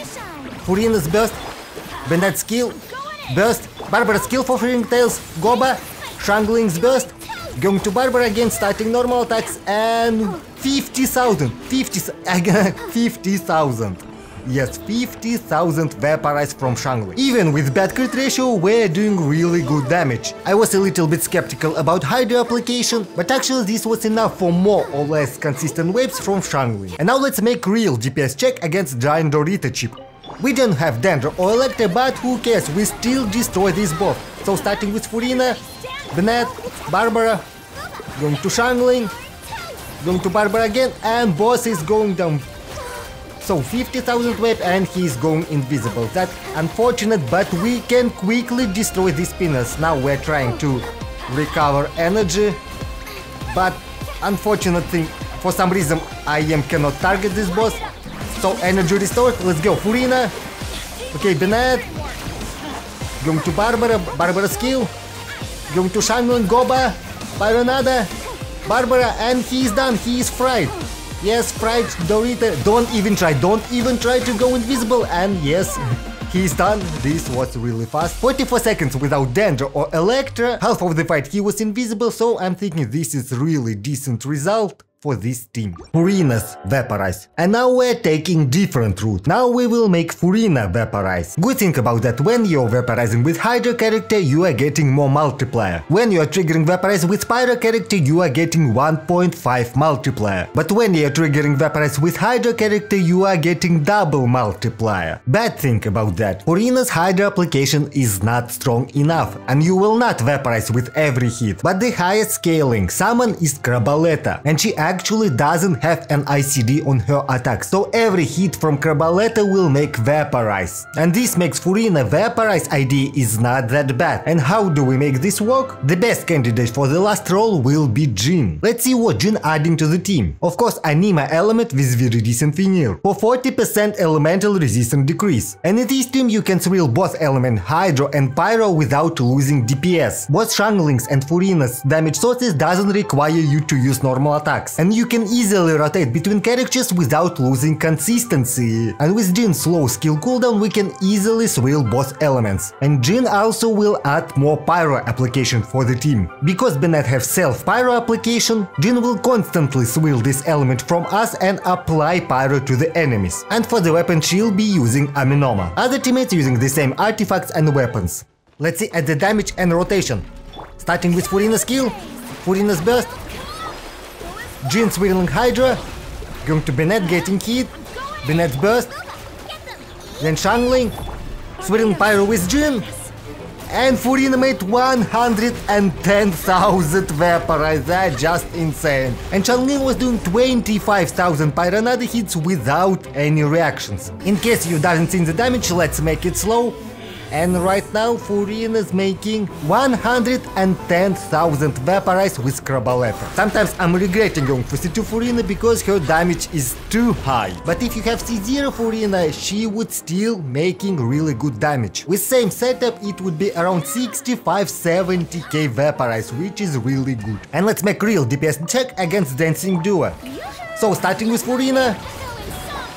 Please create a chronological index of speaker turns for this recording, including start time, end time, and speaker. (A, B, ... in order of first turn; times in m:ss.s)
0:00.6-0:01.4 A
0:02.0-0:37.4 A
0:38.2-0:39.1 A
0:40.0-0:42.5 A
0:43.4-0:52.6 A
0:53.5-1:00.3 A
1:01.1-1:01.9 A
1:03.2-1:04.9 A
1:05.7-1:08.1 A
1:08.6-2:50.2 A
2:50.8-2:53.1 A
2:54.6-2:55.8 A
2:56.4-2:59.0 A
3:00.2-3:00.9 A
3:01.6-3:02.9 A
3:03.7-3:16.8 A
3:17.3-3:40.2 A
3:40.8-3:42.0 A